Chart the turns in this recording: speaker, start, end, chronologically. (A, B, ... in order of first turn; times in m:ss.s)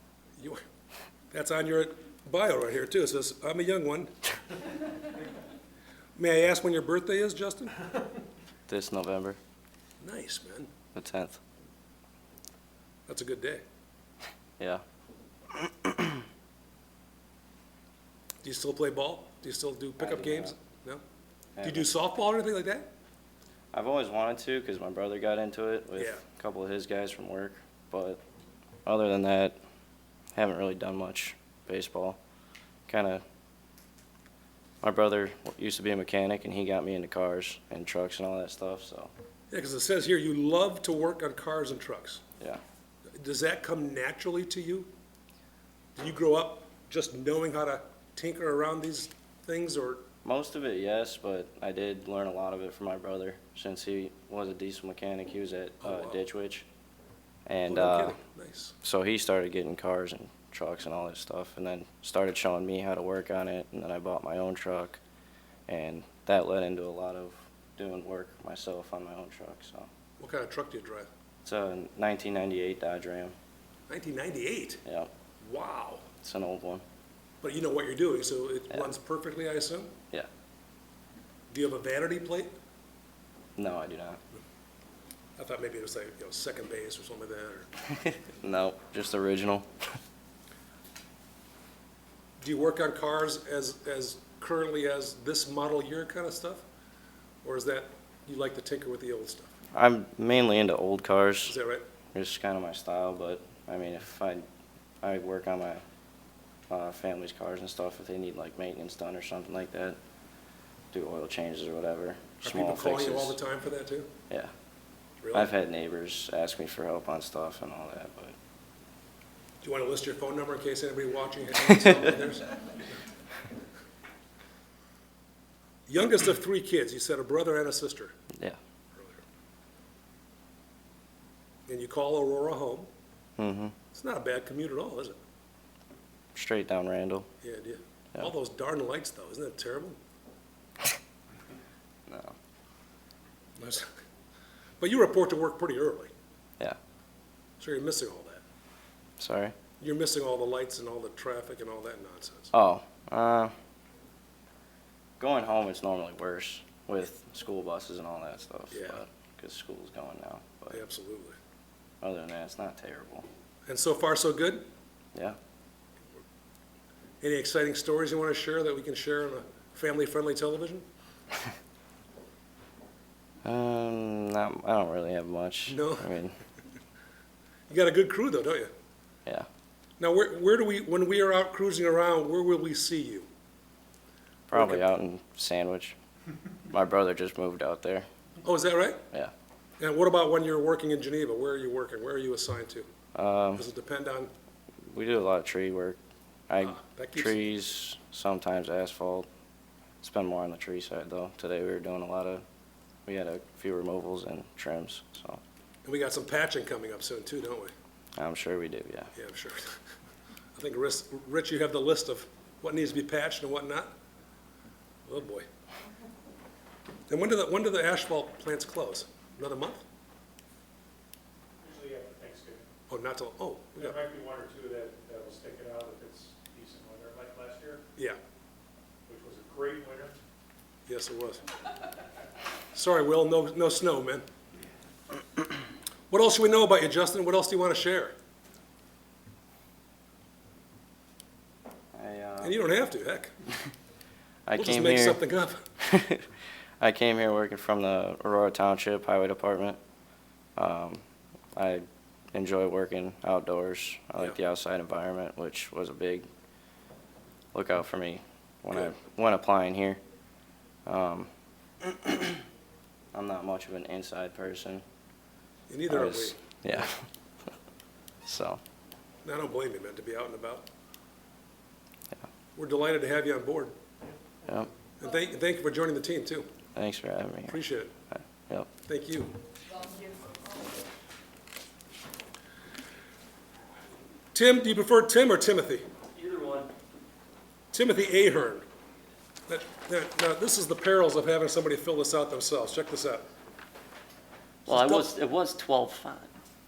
0:00.4-0:00.6 A
0:01.3-0:04.1 A
0:06.2-0:07.8 A
0:08.7-0:09.4 B
0:10.0-0:10.7 A
0:10.9-0:11.4 B
0:13.1-0:13.6 A
0:15.8-0:16.1 B
0:18.4-0:21.0 A
0:20.0-0:20.5 B
0:21.6-0:21.9 B
0:21.6-0:22.9 A
0:23.7-0:28.2 B
0:26.0-0:26.2 A
0:28.8-0:29.6 B
0:30.3-0:32.2 B
0:32.9-0:33.2 B
0:34.8-0:39.1 B
0:39.5-0:42.2 A
0:43.2-0:44.9 A
0:46.0-0:50.0 A
0:50.2-0:56.6 B
0:55.8-0:56.2 A
0:57.5-0:58.2 B
0:57.7-0:58.7 A
0:58.8-1:05.0 B
1:05.7-1:09.9 B
1:10.2-1:11.1 A
1:11.4-1:13.3 B
1:13.9-1:14.8 A
1:14.8-1:15.1 B
1:15.4-1:16.0 A
1:16.2-1:16.8 B
1:17.4-1:19.9 A
1:21.5-1:22.5 A
1:23.6-1:24.2 B
1:25.4-1:27.7 A
1:28.0-1:29.7 B
1:32.4-1:36.6 A
1:37.4-1:39.5 A
1:39.7-1:41.6 B
1:41.4-1:41.8 A
1:42.1-1:44.4 B
1:45.0-1:45.8 B
1:46.7-1:50.0 B
1:50.9-1:53.4 B
1:52.4-1:54.1 A
1:55.2-1:55.5 A
1:55.3-1:58.4 B
1:59.6-2:02.5 A
2:05.9-2:08.1 A
2:11.7-2:12.9 A
2:13.4-2:13.7 B
2:13.9-2:15.2 A
2:16.3-2:17.3 B
2:17.4-2:20.0 A
2:22.1-2:22.3 B
2:23.6-2:23.9 A
2:24.8-2:26.1 A
2:27.6-2:28.4 A
2:29.2-2:29.5 B
2:29.8-2:32.5 A
2:32.5-2:33.5 B
2:35.2-2:40.8 B
2:38.7-2:39.0 A
2:40.7-2:41.4 A
2:42.0-2:43.3 B
2:43.7-2:44.7 A
2:47.2-2:50.8 A
2:53.4-2:56.4 B
2:55.7-2:56.1 A
2:57.7-2:58.7 A
3:00.0-3:03.3 A
3:04.5-3:06.0 B
3:04.5-3:04.8 A
3:06.7-3:08.1 B
3:08.4-3:09.0 A
3:09.8-3:12.9 A
3:13.1-3:13.6 B
3:13.6-3:14.3 A
3:14.9-3:16.0 B
3:16.5-3:19.3 B
3:16.6-3:17.4 A
3:20.0-3:22.4 B
3:23.0-3:25.4 B
3:25.8-3:27.7 A
3:28.2-3:29.1 B
3:29.2-3:29.8 A
3:30.6-3:33.9 A
3:35.0-3:35.5 A
3:37.1-3:39.8 A
3:41.6-3:42.7 C
3:42.9-3:44.0 A
3:43.8-3:47.8 C
3:49.1-3:50.1 C
3:50.9-3:51.4 A
3:52.7-3:54.2 A
3:56.1-3:58.1 A
4:01.9-4:02.5 B
4:02.4-4:03.3 A
4:04.5-4:05.2 B
4:04.6-4:05.6 A
4:05.8-4:06.3 B
4:06.8-4:09.8 B
4:10.6-4:11.0 B
4:11.6-4:16.2 B
4:17.5-4:20.0 B
4:20.8-4:21.3 B
4:21.8-4:22.4 B
4:23.1-4:24.8 B
4:25.7-4:26.4 A
4:25.9-4:27.1 B
4:28.2-4:28.6 B
4:29.2-4:30.6 A
4:32.6-4:33.7 A
4:35.0-4:36.5 A
4:36.7-4:37.6 B
4:37.5-4:37.9 A
4:38.1-4:38.7 B
4:38.9-4:39.3 A
4:44.3-4:45.8 A
4:46.1-4:46.7 D
4:47.7-4:48.6 A
4:49.5-4:53.2 A
4:54.6-4:56.3 D
4:54.7-4:55.0 A